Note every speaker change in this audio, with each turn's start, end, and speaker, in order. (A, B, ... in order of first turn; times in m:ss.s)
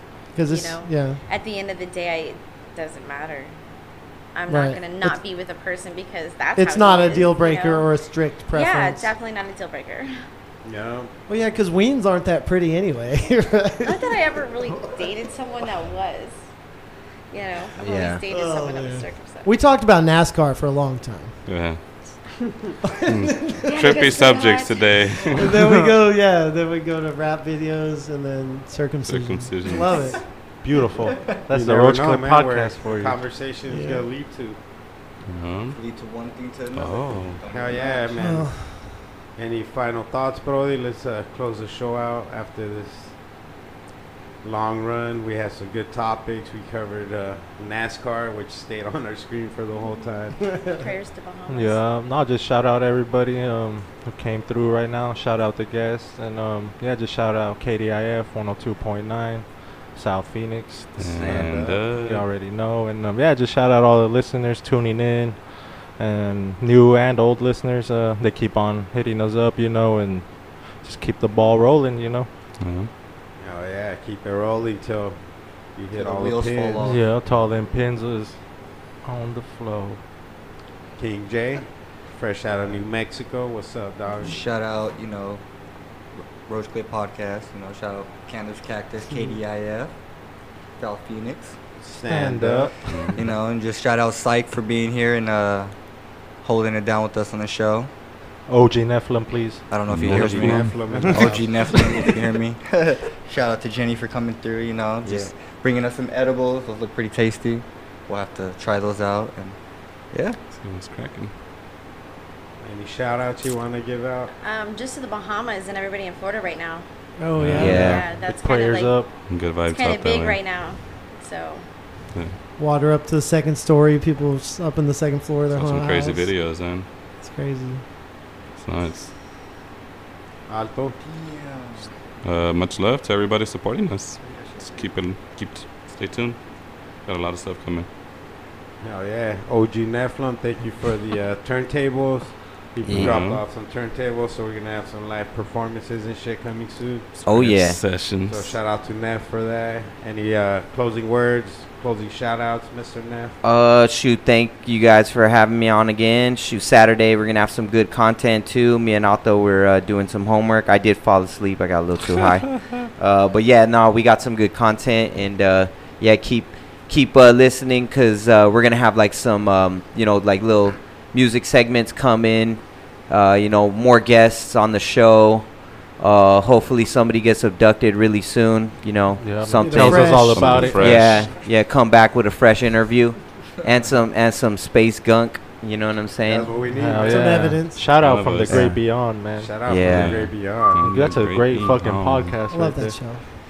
0:00.4-0:01.2 A
0:00.4-0:03.6 B
0:04.4-0:07.9 B
0:04.5-0:05.2 A
0:06.6-0:09.1 A
0:08.5-0:10.1 B
0:10.6-0:11.1 C
0:11.3-0:14.1 A
0:13.8-0:16.4 B
0:17.3-0:19.5 B
0:17.8-0:18.2 D
0:18.3-0:21.4 A
0:21.4-0:21.8 E
0:22.8-0:23.6 A
0:23.1-0:25.7 E
0:23.6-0:25.1 B
0:25.4-0:30.2 A
0:25.6-0:25.9 F
0:29.0-0:30.2 E
0:30.6-0:33.2 F
0:31.5-0:34.6 C
0:33.7-0:34.0 A
0:35.3-0:35.8 E
0:35.7-0:38.2 G
0:36.7-0:37.4 E
0:37.5-0:38.5 C
0:38.2-0:39.0 A
0:39.4-0:43.2 C
0:44.4-0:50.6 C
0:50.6-0:51.8 B
0:51.5-1:12.3 F
1:01.0-1:02.3 E
1:01.2-1:01.8 C
1:01.4-1:01.7 D
1:12.6-1:12.9 E
1:13.4-1:17.0 C
1:15.9-1:17.3 G
1:16.8-1:20.0 F
1:21.0-1:24.4 C
1:24.2-1:25.4 G
1:26.4-1:30.1 G
1:30.8-1:31.6 G
1:31.8-1:33.1 C
1:32.1-1:33.2 F
1:32.9-1:33.2 E
1:33.1-1:37.9 G
1:38.4-1:39.7 F
1:39.7-1:50.4 G
1:39.9-1:40.8 E
1:39.9-1:42.1 C
1:40.9-1:41.4 F
1:45.0-1:45.3 C
1:50.4-1:51.3 E
1:52.6-1:54.3 C
1:54.4-1:56.8 B
1:57.2-1:57.9 A
1:57.4-1:58.0 E
1:57.6-1:58.1 D
1:57.8-2:01.7 B
1:57.8-1:59.3 F
1:59.1-2:00.4 E
2:02.1-2:02.4 E
2:02.6-2:06.3 A
2:05.5-2:06.9 E
2:07.2-2:07.8 A
2:08.6-2:09.1 E
2:10.5-2:11.0 C
2:11.0-2:12.0 G
2:12.2-2:17.9 E
2:14.2-2:14.9 G
2:18.8-2:27.1 C
2:22.8-2:23.2 D
2:22.9-2:23.4 E
2:27.2-2:28.6 E
2:27.3-2:27.8 D
2:28.1-2:33.3 C
2:33.4-3:06.6 D
2:59.2-3:01.1 F
2:59.6-3:00.7 A
3:00.2-3:01.4 E
3:06.2-3:07.6 C
3:06.7-3:09.7 F
3:07.0-3:07.8 A
3:07.8-3:08.9 E
3:08.5-3:08.8 D
3:09.3-3:10.8 C
3:09.6-3:10.3 D
3:09.8-3:12.4 E
3:10.9-3:13.0 F
3:12.5-3:13.2 A